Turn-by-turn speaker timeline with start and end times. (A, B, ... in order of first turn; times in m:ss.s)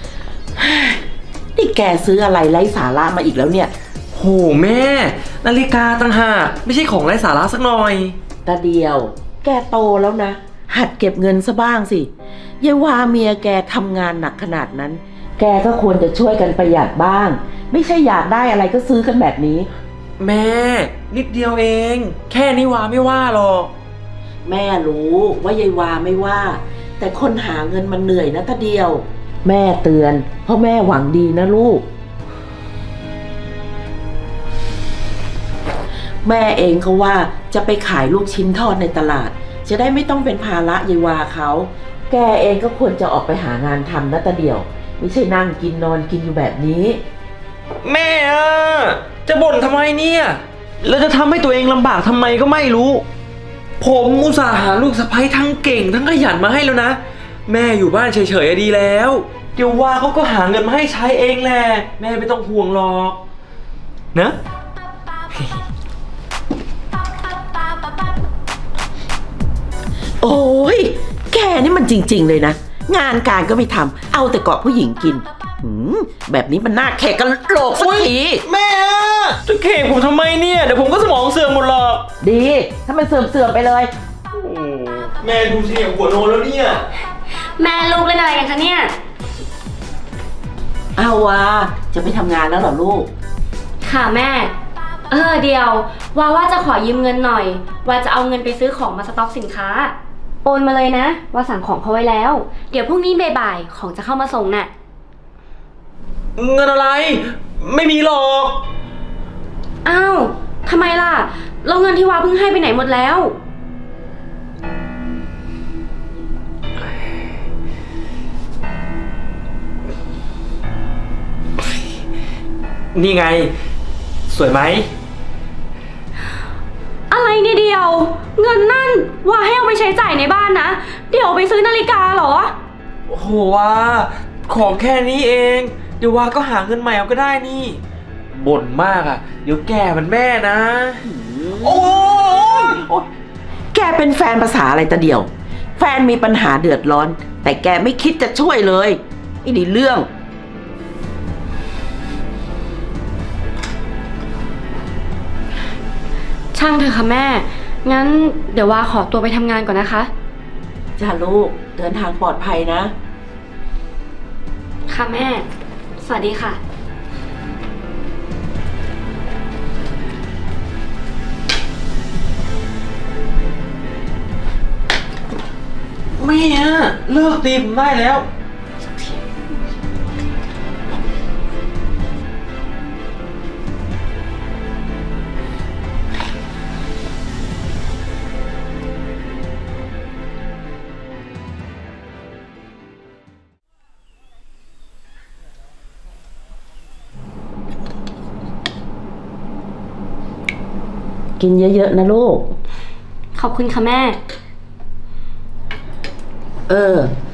0:00.6-0:01.0 A
0:01.6-0:03.7 A
0:04.1-0:08.2 B
0:08.4-0:19.7 A
0:20.2-0:23.7 B
0:24.4-0:31.9 A
0:36.2-0:47.0 A
0:47.8-0:53.1 B
0:53.8-1:03.2 B
1:04.1-1:04.4 B
1:05.3-1:05.6 B
1:10.2-1:18.4 A
1:17.8-1:22.1 B
1:22.2-1:23.9 A
1:24.3-1:26.9 B
1:27.6-1:28.9 C
1:31.0-1:33.1 A
1:33.9-1:34.5 C
1:35.1-1:39.9 C
1:40.4-1:44.7 C
1:46.4-1:48.6 B
1:49.9-1:53.3 C
2:02.9-2:03.6 B
2:04.3-2:04.9 B
2:07.1-2:12.5 C
2:13.1-2:17.8 B
2:18.3-2:21.1 B
2:21.0-2:22.8 A
2:21.6-2:23.1 B
2:23.7-2:30.1 A
2:36.6-2:40.1 C
2:41.0-2:42.9 A
2:44.9-2:45.4 C
2:46.0-2:46.6 C
2:56.1-2:58.3 B
3:21.4-3:22.6 A
3:23.4-3:24.2 C
3:26.7-3:27.1 A